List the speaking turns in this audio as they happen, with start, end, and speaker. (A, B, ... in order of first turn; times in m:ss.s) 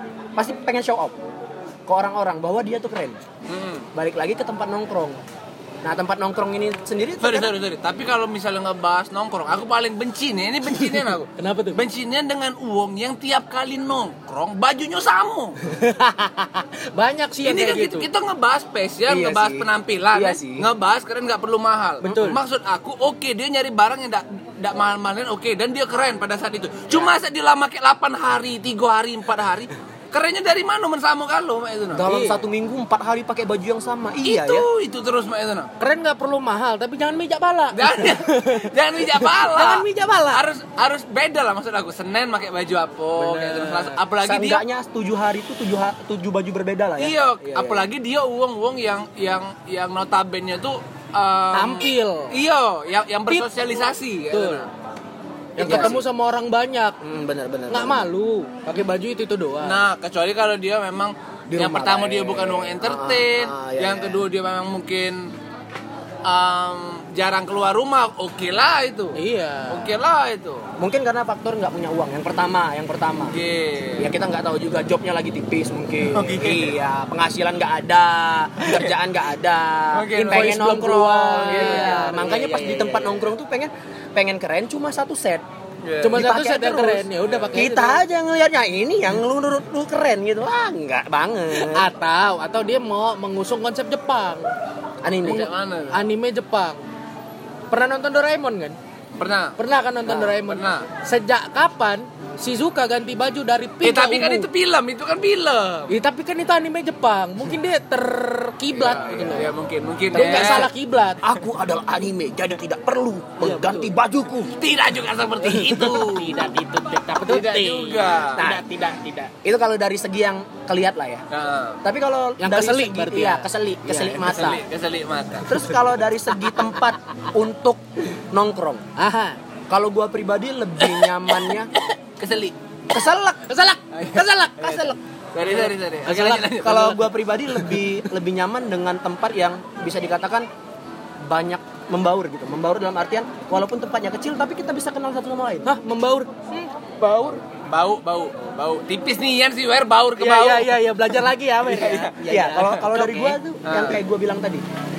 0:00.4-0:01.2 A
0:01.9-0:03.2 A
0:03.5-0:03.9 B
0:03.9-0:05.2 A
0:05.8-0:07.5 A
0:07.2-0:15.6 B
0:10.9-0:11.8 C
0:15.6-0:18.1 C
0:17.4-0:32.1 B
0:19.1-0:20.7 A
0:22.0-0:22.4 C
0:22.0-0:22.3 A
0:31.9-0:34.7 A
0:32.1-0:32.4 C
0:34.2-0:35.7 B
0:35.8-0:40.4 C
0:37.7-0:44.6 B
0:43.2-0:44.0 C
0:44.2-0:47.8 A
0:47.0-0:54.7 B
0:51.5-0:52.4 C
0:54.3-0:54.7 C
0:55.6-0:57.0 C
0:55.6-0:56.0 B
0:55.6-0:56.0 A
0:57.0-0:58.0 A
0:57.7-0:59.8 C
0:59.6-1:05.3 B
1:01.5-1:04.2 A
1:06.2-1:09.2 B
1:09.2-1:10.0 C
1:09.7-1:10.6 B
1:10.8-1:13.4 A
1:13.3-1:14.1 B
1:14.0-1:25.4 A
1:16.1-1:16.8 B
1:19.9-1:20.6 B
1:20.2-1:23.3 C
1:21.4-1:22.1 B
1:25.8-1:26.3 B
1:26.0-1:28.0 C
1:26.2-1:31.9 A
1:27.2-1:27.6 B
1:31.6-1:34.5 C
1:35.0-1:35.5 A
1:35.2-1:36.0 B
1:35.9-1:36.8 C
1:37.7-1:38.8 C
1:39.2-1:39.6 B
1:39.6-1:44.5 C
1:40.1-1:40.3 A
1:40.3-1:40.9 B
1:43.8-1:45.9 B
1:45.9-1:49.5 C
1:48.7-1:50.7 B
1:50.1-1:51.2 C
1:50.1-1:54.5 A
1:53.4-1:53.9 C
1:54.6-1:56.5 B
1:55.4-1:59.3 C
1:57.3-1:58.5 B
1:58.4-1:58.7 A
1:59.3-2:01.2 A
2:01.3-2:01.8 B
2:01.8-2:04.6 A
2:02.4-2:04.2 C
2:04.2-2:05.5 B
2:05.5-2:08.8 A
2:09.0-2:09.4 C
2:09.7-2:11.7 A
2:12.1-2:12.6 B
2:12.9-2:13.6 A
2:13.5-2:14.9 C
2:13.9-2:17.0 B
2:14.5-2:15.0 A
2:15.6-2:17.0 C
2:16.6-2:20.5 A
2:21.3-2:25.7 A
2:25.6-2:27.4 C
2:27.6-2:32.8 B
2:30.2-2:33.4 C
2:32.2-2:34.6 A
2:33.6-2:34.0 B